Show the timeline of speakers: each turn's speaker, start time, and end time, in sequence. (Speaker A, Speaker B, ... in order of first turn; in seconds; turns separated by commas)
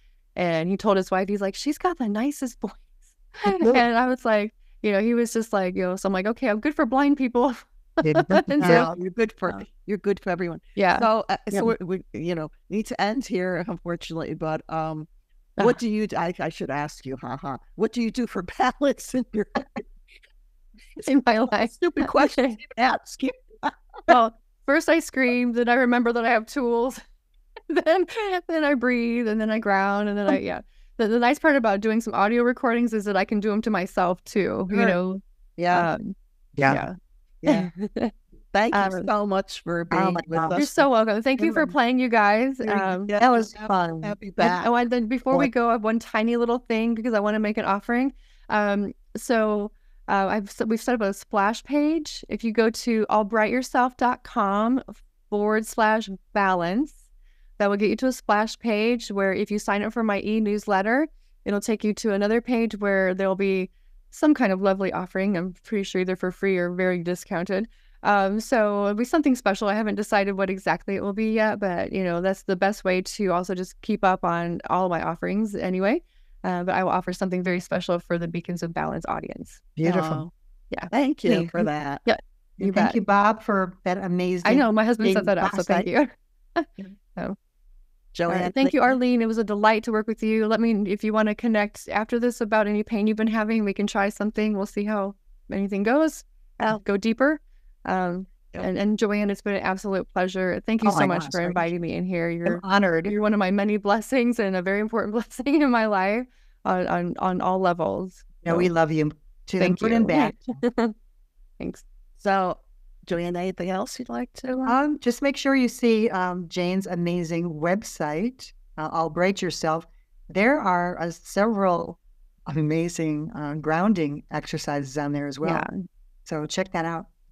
Speaker A: 0.4-8.9, Speaker B: 8.0-8.9, Speaker C: 8.6-19.7, Speaker A: 10.8-11.7, Speaker A: 21.0-22.6, Speaker C: 21.6-23.8, Speaker A: 24.1-27.0, Speaker A: 27.7-35.2, Speaker C: 34.7-35.0, Speaker C: 35.6-35.9, Speaker A: 35.7-36.1, Speaker B: 36.6-36.9, Speaker A: 36.7-37.0, Speaker C: 37.4-37.7, Speaker A: 37.5-38.1, Speaker C: 38.5-40.9, Speaker A: 38.7-39.1, Speaker B: 39.9-40.6, Speaker A: 40.5-43.1, Speaker B: 41.4-41.7, Speaker C: 42.6-44.7, Speaker B: 43.1-44.2, Speaker A: 44.4-57.0, Speaker A: 57.6-83.0, Speaker B: 79.8-80.2, Speaker C: 79.8-80.2, Speaker C: 80.9-82.0, Speaker B: 82.6-85.9, Speaker A: 84.4-87.4, Speaker C: 88.1-89.0, Speaker A: 88.3-108.7, Speaker B: 100.8-101.7, Speaker B: 102.5-103.1, Speaker B: 108.5-110.3, Speaker A: 109.6-111.0, Speaker C: 112.2-114.4, Speaker A: 114.4-114.8, Speaker B: 114.7-125.7, Speaker A: 125.4-125.7, Speaker B: 126.3-127.1